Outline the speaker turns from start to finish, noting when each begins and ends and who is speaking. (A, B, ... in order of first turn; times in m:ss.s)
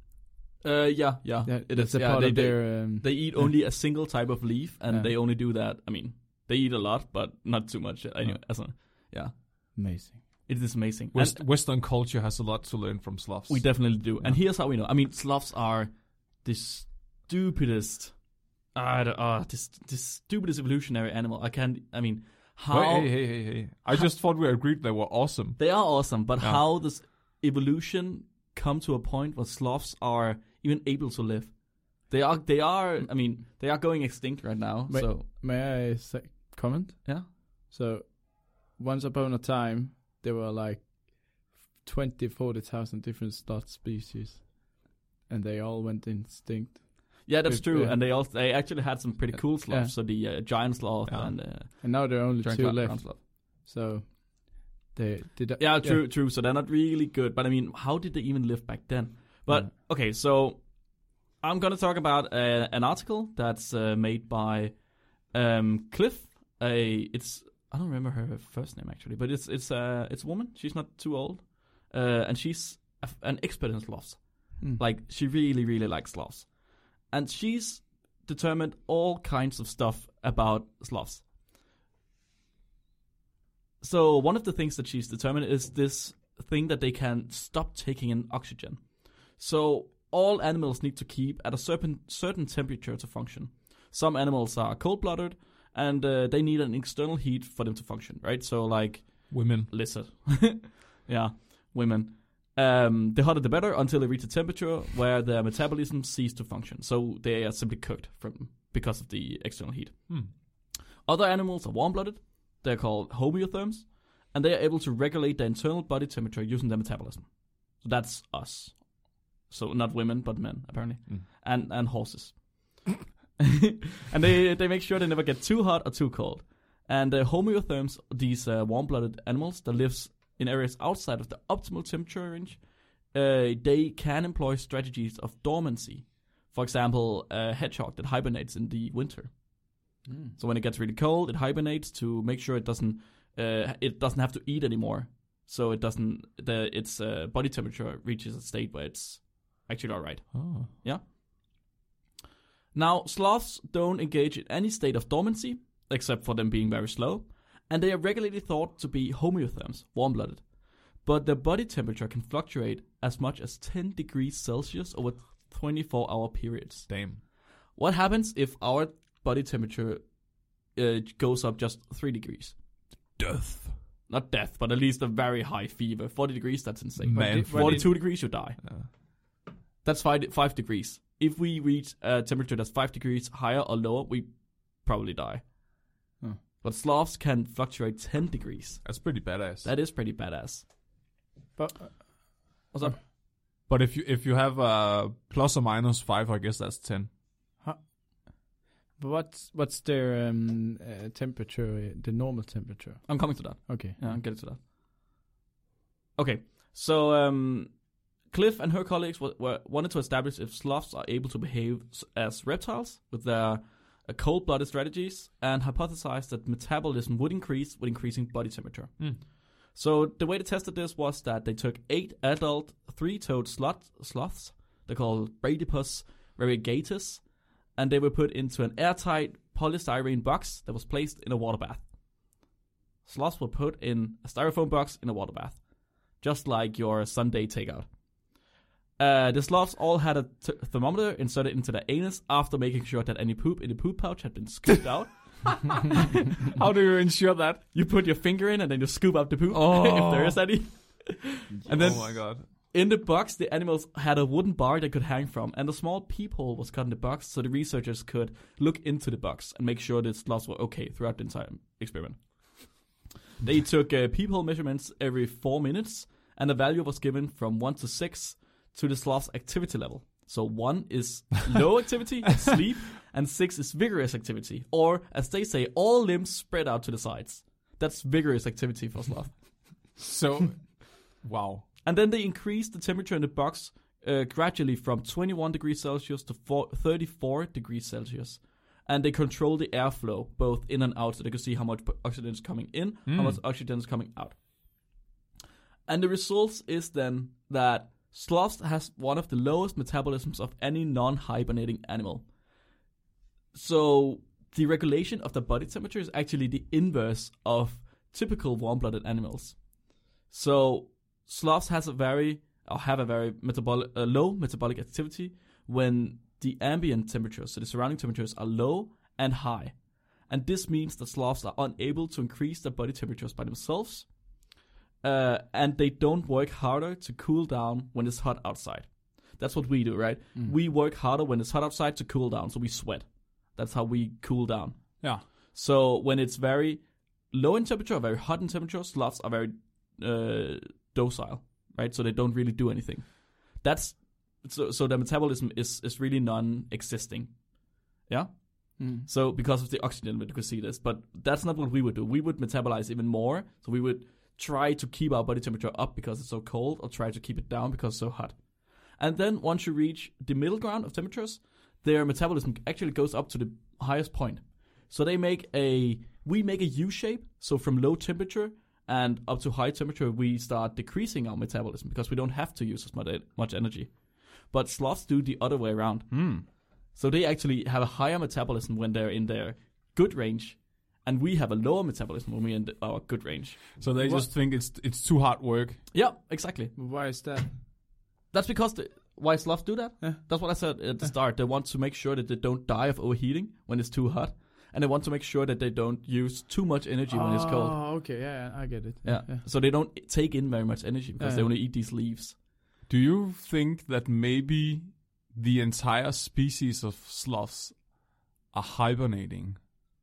0:00.6-0:09.8 A
0:01.4-0:03.5 B
0:09.8-0:10.2 B
0:10.5-0:11.4 A
0:11.1-0:14.4 C
0:13.5-0:24.1 A
0:22.7-0:26.6 C
0:25.6-0:35.3 A
0:34.9-0:48.0 B
0:47.3-0:53.2 A
0:49.3-0:49.9 B
0:51.1-0:51.4 C
0:51.7-0:56.0 B
0:55.6-1:21.3 A
1:23.8-2:31.0 A
1:39.3-1:39.7 C
2:20.1-2:20.4 B
2:30.3-2:30.7 C
2:32.7-2:52.6 A
2:46.9-2:47.2 C
2:53.2-2:53.8 C
2:54.1-2:58.7 A
2:57.0-2:58.9 C
2:57.1-2:57.9 B
2:59.8-3:05.5 A
3:06.6-3:10.7 A
3:08.8-3:09.7 C
3:11.6-3:12.9 B
3:12.7-3:13.0 A
3:13.7-3:17.1 C
3:17.6-3:24.2 B
3:23.1-3:24.6 A
3:26.2-3:51.9 A
3:53.0-3:58.0 A
3:59.0-4:06.1 A
4:06.5-4:07.6 C
4:07.7-4:22.9 A
4:09.5-4:10.4 C
4:11.6-4:11.9 B
4:11.7-4:12.5 C
4:23.4-4:39.8 A
4:40.0-4:41.7 C
4:41.8-4:54.4 A
4:53.1-4:53.4 C
4:55.9-5:02.3 A
5:03.5-6:23.8 A
5:48.8-5:49.1 B
6:16.1-6:16.4 C
6:23.8-6:25.8 C
6:24.0-6:24.3 B
6:25.9-6:26.8 A
6:26.8-6:27.6 B
6:28.3-6:37.8 A
6:37.1-6:39.4 B
6:39.0-6:42.4 A
6:41.2-6:41.5 B
6:42.9-6:49.8 C